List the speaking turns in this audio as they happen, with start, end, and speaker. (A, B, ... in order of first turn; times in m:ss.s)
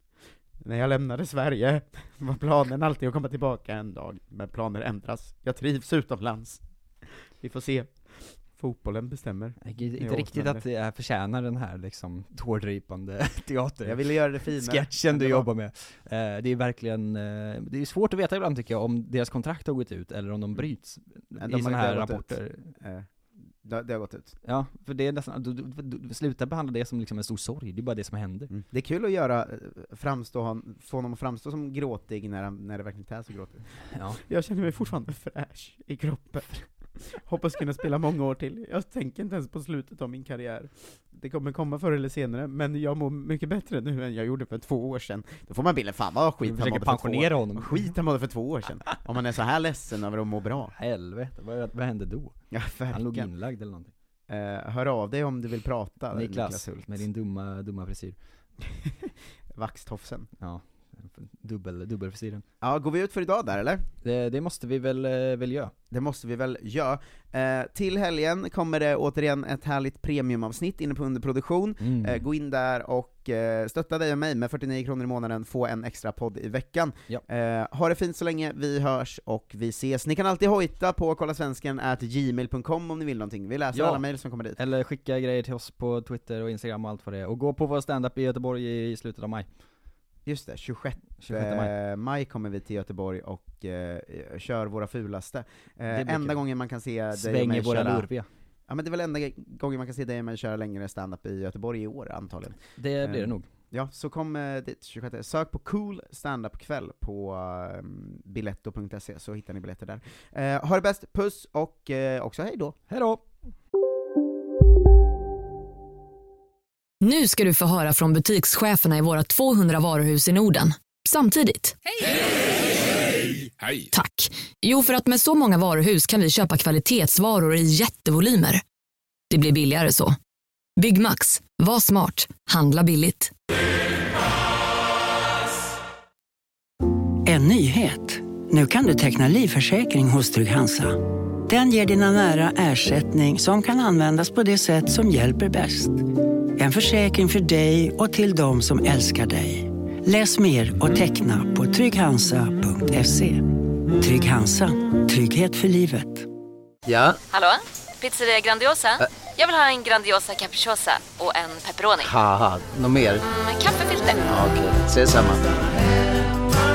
0:00.6-0:06.6 A
0:07.4-0:10.6 A
0:09.6-0:22.7 B
0:13.8-0:15.5 A
0:21.4-0:24.4 A
0:24.4-0:28.5 B
0:28.5-0:50.7 A
0:33.9-0:34.2 B
0:46.4-0:47.9 B
0:50.7-0:52.4 B
0:52.5-0:53.3 A
0:52.9-0:53.9 B
0:54.3-0:57.0 A
0:56.1-0:58.2 B
0:58.6-1:00.3 A
1:00.4-1:02.4 B
1:02.6-1:03.8 A
1:04.0-1:05.7 B
1:05.9-1:24.6 A
1:11.8-1:12.2 B
1:23.7-1:24.0 B
1:24.6-1:29.5 B
1:30.2-1:38.1 A
1:31.2-1:31.7 B
1:35.9-1:36.4 B
1:37.1-1:38.2 B
1:38.7-1:52.8 A
1:42.8-1:43.5 B
1:52.9-1:53.2 B
1:57.0-2:01.8 C
2:03.9-2:08.6 C
2:09.3-2:10.2 C
2:10.8-2:13.3 C
2:17.2-2:36.3 D
2:36.9-2:37.2 E
2:37.3-2:42.2 F
2:42.0-2:43.2 E
2:43.2-2:44.3 F
2:44.3-2:45.5 E